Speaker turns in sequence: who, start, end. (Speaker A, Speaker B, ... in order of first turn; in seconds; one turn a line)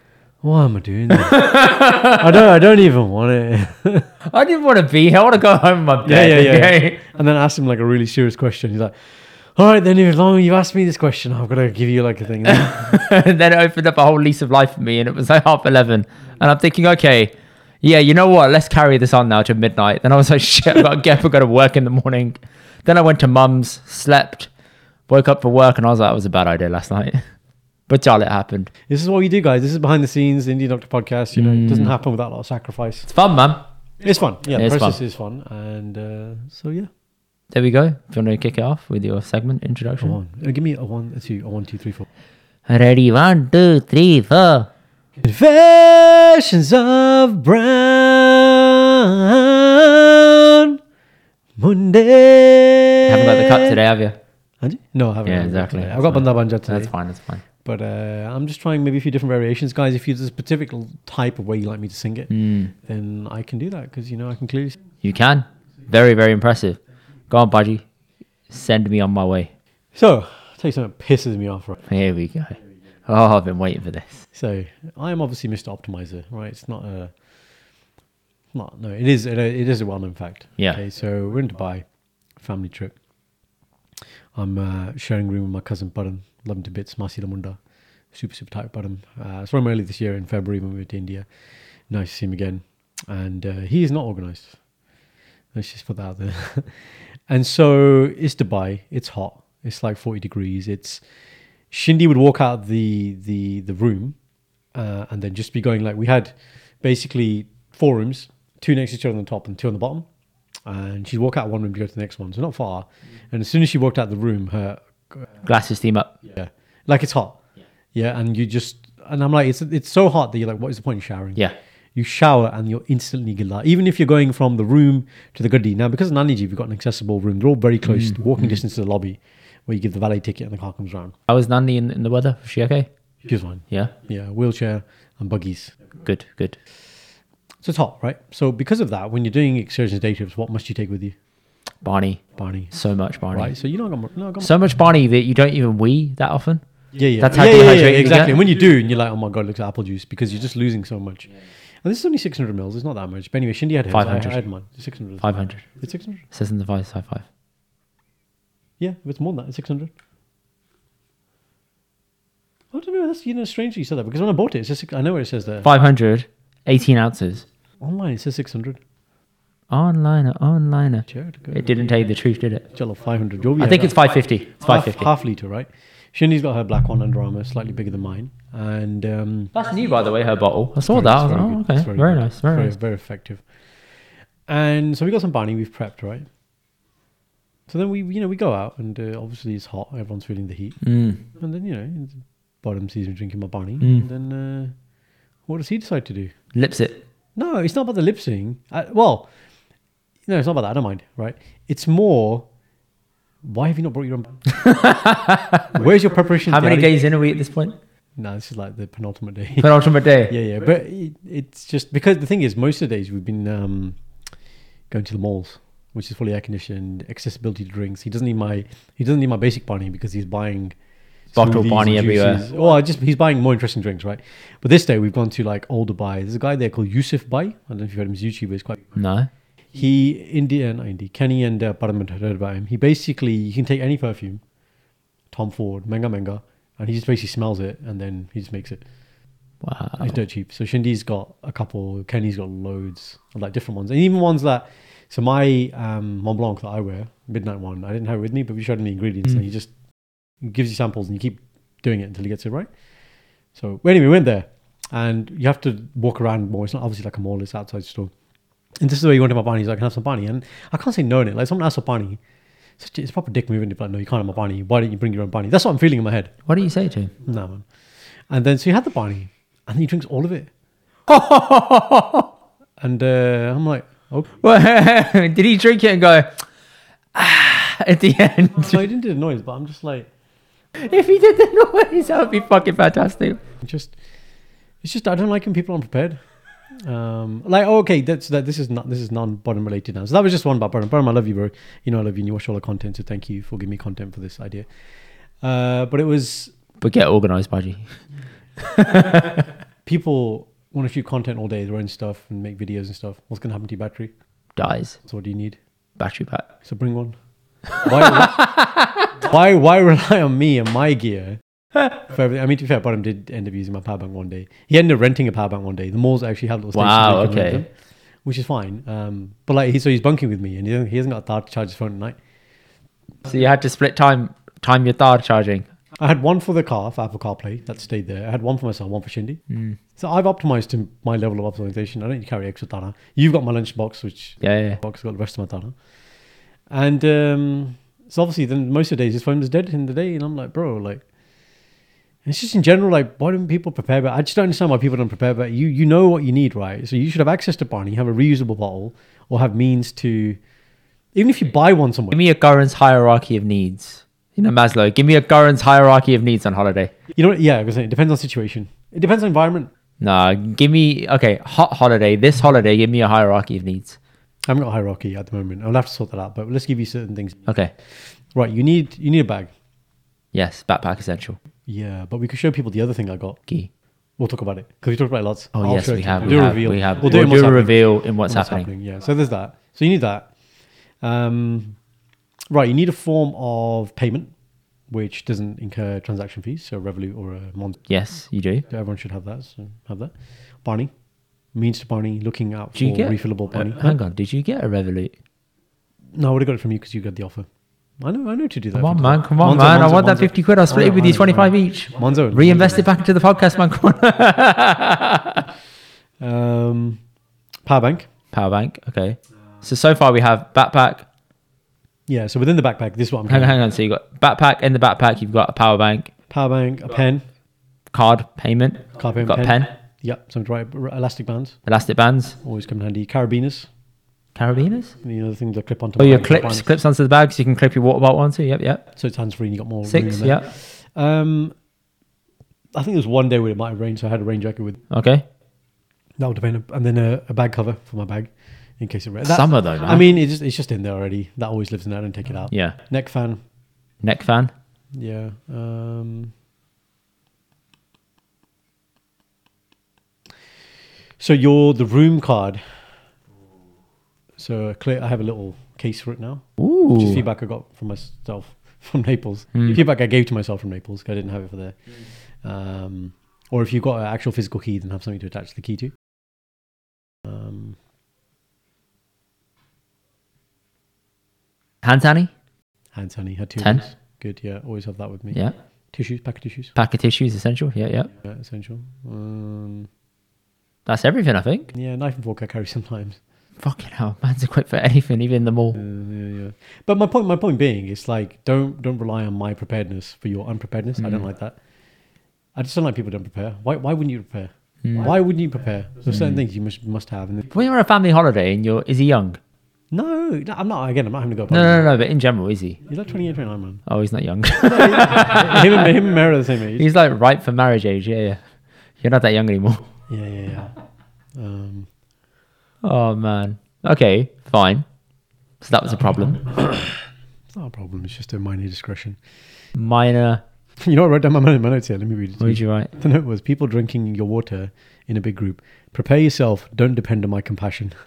Speaker A: 0.4-4.1
Speaker B: 1.1-2.4
Speaker B: 4.3-7.0
Speaker A: 6.0-12.8
Speaker B: 12.5-24.5
Speaker B: 25.1-27.2
Speaker B: 27.9-28.7
Speaker A: 28.9-33.1
Speaker B: 31.4-31.9
Speaker B: 33.1-33.6
Speaker A: 34.0-36.9
Speaker B: 34.5-35.0
Speaker B: 37.5-40.2
Speaker A: 40.0-42.1
Speaker B: 42.7-44.7
Speaker A: 45.2-50.8
Speaker A: 51.6-53.8
Speaker B: 53.1-54.2
Speaker A: 54.6-56.9
Speaker B: 55.3-57.4
Speaker A: 57.6-64.8
Speaker B: 62.3-62.7
Speaker B: 65.0-67.8
Speaker B: 68.5-69.5
Speaker A: 69.9-71.8
Speaker B: 71.9-74.2
Speaker A: 74.3-77.1
Speaker A: 78.5-81.8
Speaker A: 82.4-83.0
Speaker A: 84.3-87.6
Speaker A: 88.1-91.3
Speaker A: 91.9-94.6
Speaker A: 95.5-101.0
Speaker A: 101.7-104.2
Speaker A: 104.7-110.1
Speaker A: 110.7-115.3
Speaker B: 115.4-116.2
Speaker A: 116.2-117.4
Speaker A: 117.9-121.4
Speaker A: 122.0-131.2
Speaker B: 127.9-128.6
Speaker B: 131.3-132.9
Speaker A: 133.2-135.8
Speaker B: 136.1-136.6
Speaker A: 137.6-141.2
Speaker B: 141.8-142.2
Speaker A: 142.4-142.7
Speaker B: 142.7-143.5
Speaker A: 143.3-144.5
Speaker B: 144.4-146.6
Speaker A: 146.9-156.2
Speaker B: 147.2-148.4
Speaker B: 153.9-154.4
Speaker B: 155.2-155.6
Speaker B: 156.3-157.2
Speaker A: 158.8-159.9
Speaker A: 162.7-165.7
Speaker B: 165.6-167.4
Speaker A: 167.8-168.8
Speaker B: 169.7-172.7
Speaker A: 171.1-171.7
Speaker A: 172.7-174.0
Speaker B: 173.6-175.1
Speaker A: 174.6-179.5
Speaker B: 179.5-182.7
Speaker A: 180.9-183.4
Speaker A: 184.5-186.3
Speaker A: 187.7-190.8
Speaker B: 190.8-191.2
Speaker A: 191.3-194.8
Speaker B: 193.8-194.1
Speaker A: 195.5-196.3
Speaker B: 196.5-197.0
Speaker A: 197.4-199.3
Speaker A: 200.3-202.5
Speaker A: 203.4-204.4
Speaker B: 204.5-205.7
Speaker A: 205.7-207.0
Speaker B: 206.5-207.8
Speaker A: 208.2-209.7
Speaker B: 209.6-210.4
Speaker A: 210.3-214.0
Speaker A: 214.9-220.8
Speaker A: 221.3-229.0
Speaker B: 221.3-222.4
Speaker B: 229.0-229.3
Speaker A: 229.7-234.4
Speaker A: 235.3-238.8
Speaker B: 239.6-240.2
Speaker A: 240.0-249.7
Speaker A: 250.4-252.7
Speaker A: 253.5-258.1
Speaker A: 258.8-262.2
Speaker A: 262.8-266.3
Speaker B: 266.5-267.1
Speaker A: 267.2-267.6
Speaker A: 268.3-270.5
Speaker B: 271.1-272.3
Speaker A: 272.8-274.4
Speaker B: 274.4-276.3
Speaker B: 277.1-278.9
Speaker A: 278.6-280.1
Speaker B: 280.8-283.4
Speaker A: 283.6-283.9
Speaker A: 284.8-286.2
Speaker A: 286.8-294.7
Speaker A: 295.4-296.5
Speaker B: 296.8-297.9
Speaker B: 298.6-299.5
Speaker A: 299.9-304.1
Speaker B: 304.6-305.0
Speaker A: 305.0-305.6
Speaker B: 306.0-306.5
Speaker A: 306.6-307.2
Speaker B: 307.7-309.1
Speaker A: 307.8-308.5
Speaker A: 309.2-311.4
Speaker A: 311.9-317.7
Speaker B: 316.7-317.6
Speaker A: 318.2-322.2
Speaker B: 323.2-325.7
Speaker A: 326.0-329.4
Speaker B: 329.5-329.8
Speaker A: 330.0-335.8
Speaker B: 334.4-334.8
Speaker A: 336.7-341.0
Speaker A: 342.2-350.4
Speaker A: 351.1-352.2
Speaker B: 352.1-356.9
Speaker A: 357.1-359.7
Speaker B: 360.0-364.0
Speaker A: 364.5-369.5
Speaker B: 367.5-367.7
Speaker B: 370.3-371.4
Speaker A: 371.7-373.4
Speaker A: 374.2-380.3
Speaker B: 375.5-378.7
Speaker A: 381.0-381.8
Speaker A: 382.5-384.3
Speaker A: 384.9-387.8
Speaker B: 387.9-388.6
Speaker A: 388.7-390.9
Speaker A: 391.5-394.0
Speaker B: 392.8-395.1
Speaker A: 396.1-397.5
Speaker A: 398.0-402.9
Speaker B: 398.7-405.5
Speaker A: 406.2-407.0
Speaker A: 407.7-408.1
Speaker B: 408.3-411.1
Speaker A: 412.1-413.6
Speaker B: 413.3-416.1
Speaker A: 416.3-417.2
Speaker B: 417.9-419.7
Speaker A: 418.9-421.6
Speaker B: 421.7-422.4
Speaker A: 422.4-423.7
Speaker B: 424.4-424.9
Speaker A: 425.0-426.7
Speaker B: 426.0-428.8
Speaker A: 429.0-431.5
Speaker B: 429.9-430.5
Speaker A: 432.7-434.8
Speaker B: 434.9-435.2
Speaker A: 436.2-443.4
Speaker B: 439.2-440.1
Speaker B: 442.5-442.8
Speaker B: 444.0-444.5
Speaker A: 445.0-446.3
Speaker A: 451.2-452.7
Speaker A: 454.4-461.8
Speaker B: 456.6-457.2
Speaker B: 459.6-459.8
Speaker A: 462.4-465.9
Speaker A: 467.2-467.8
Speaker B: 471.8-472.3
Speaker A: 472.9-475.4
Speaker B: 473.6-473.9
Speaker A: 475.9-476.7
Speaker B: 476.8-478.1
Speaker A: 478.2-479.9
Speaker B: 480.9-481.7
Speaker A: 481.7-483.2
Speaker B: 483.6-485.8
Speaker A: 485.8-491.6
Speaker B: 491.0-491.3
Speaker A: 492.6-497.5
Speaker B: 494.8-495.1
Speaker B: 496.1-496.4
Speaker B: 497.5-499.4
Speaker A: 499.9-501.9
Speaker B: 501.5-502.8
Speaker A: 502.9-503.8
Speaker B: 503.9-505.9
Speaker A: 504.6-506.9
Speaker B: 506.8-508.4
Speaker B: 509.0-509.8
Speaker A: 510.1-510.7
Speaker A: 511.4-511.9
Speaker B: 512.8-514.9
Speaker B: 515.6-516.5
Speaker A: 516.6-516.9
Speaker A: 517.5-519.2
Speaker B: 519.8-520.4
Speaker A: 520.8-527.9
Speaker B: 522.4-522.9